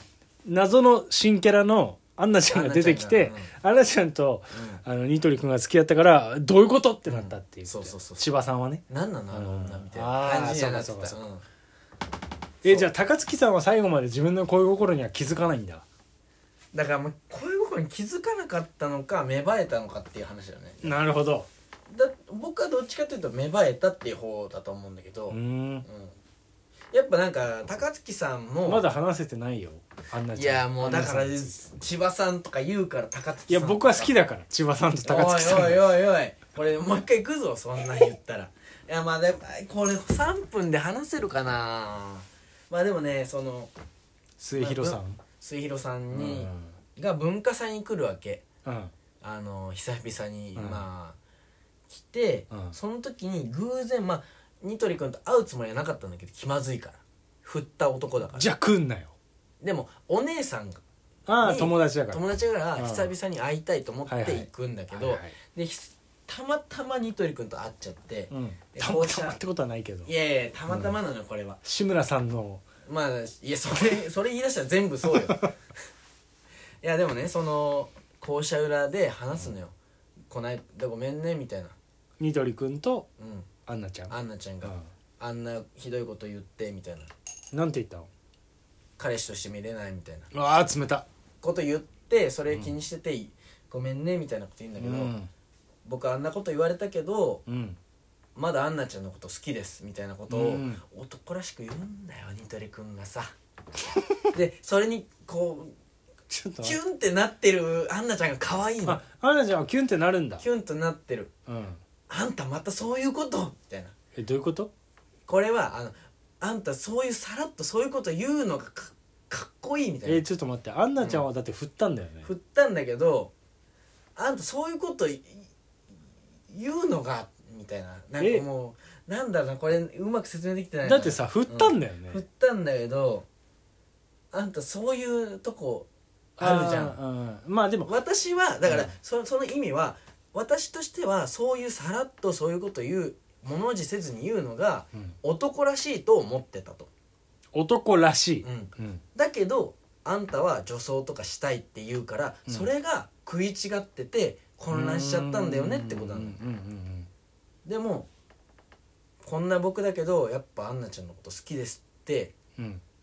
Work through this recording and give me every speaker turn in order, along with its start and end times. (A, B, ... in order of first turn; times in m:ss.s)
0:00.4-0:11.2 A
0:02.5-0:03.5 B
0:04.5-0:04.8 B
0:07.0-0:08.2 B
0:08.9-0:11.4 B
0:12.6-0:15.8 A
0:12.6-0:12.9 B
0:16.7-0:20.9 B
0:20.8-0:21.5 A
0:21.9-0:26.1 B
0:25.3-0:25.8 A
0:26.9-0:28.8 B
0:28.6-0:31.5 A
0:30.3-0:34.1 B
0:33.5-0:35.9 A
0:35.0-0:43.7 B
0:44.4-0:45.2 A
0:44.6-0:48.4 B
0:46.1-0:46.7 A
0:48.6-0:48.9 A
0:49.2-0:51.2 B
0:50.6-0:50.8 A
0:51.9-0:58.5 B
0:52.5-0:52.8 A
0:58.3-0:59.1 A
0:59.6-1:00.8 B
1:01.3-1:02.2 A
1:01.4-1:09.4 B
1:02.8-1:03.1 A
1:04.1-1:05.3 A
1:08.3-1:10.1 A
1:10.0-1:11.6 B
1:10.7-1:11.0 A
1:11.6-1:12.6 A
1:12.8-1:15.5 B
1:16.8-1:19.7 B
1:20.3-1:21.7 B
1:22.2-1:23.1 A
1:23.2-1:23.5 B
1:23.6-1:24.8 A
1:24.1-1:27.1 B
1:27.5-1:28.1 A
1:29.0-1:30.3 B
1:30.3-1:31.0 A
1:31.4-1:35.1 B
1:34.8-1:35.3 A
1:35.8-1:37.4 B
1:37.5-1:37.8 A
1:38.4-1:43.3 B
1:40.3-1:40.8 A
1:44.3-1:45.7 B
1:46.3-1:46.8 A
1:46.6-1:49.0 B
1:48.8-1:50.4 A
1:50.4-1:51.3 B
1:51.5-1:51.8 A
1:52.1-1:53.9 B
1:54.1-1:54.7 A
1:55.3-2:00.2 B
2:00.0-2:02.3 A
2:01.0-2:01.2 B
2:02.2-2:03.3 B
2:04.2-2:05.5 B
2:06.5-2:13.3 B
2:08.2-2:08.4 A
2:10.8-2:12.2 A
2:14.3-2:15.9 B
2:16.4-2:17.9 A
2:16.4-2:17.0 B
2:17.8-2:26.9 B
2:18.6-2:18.9 A
2:27.5-2:29.0 A
2:28.4-2:36.4 B
2:34.7-2:37.1 A
2:37.6-2:38.1 B
2:39.2-2:42.3 B
2:42.6-2:42.8 A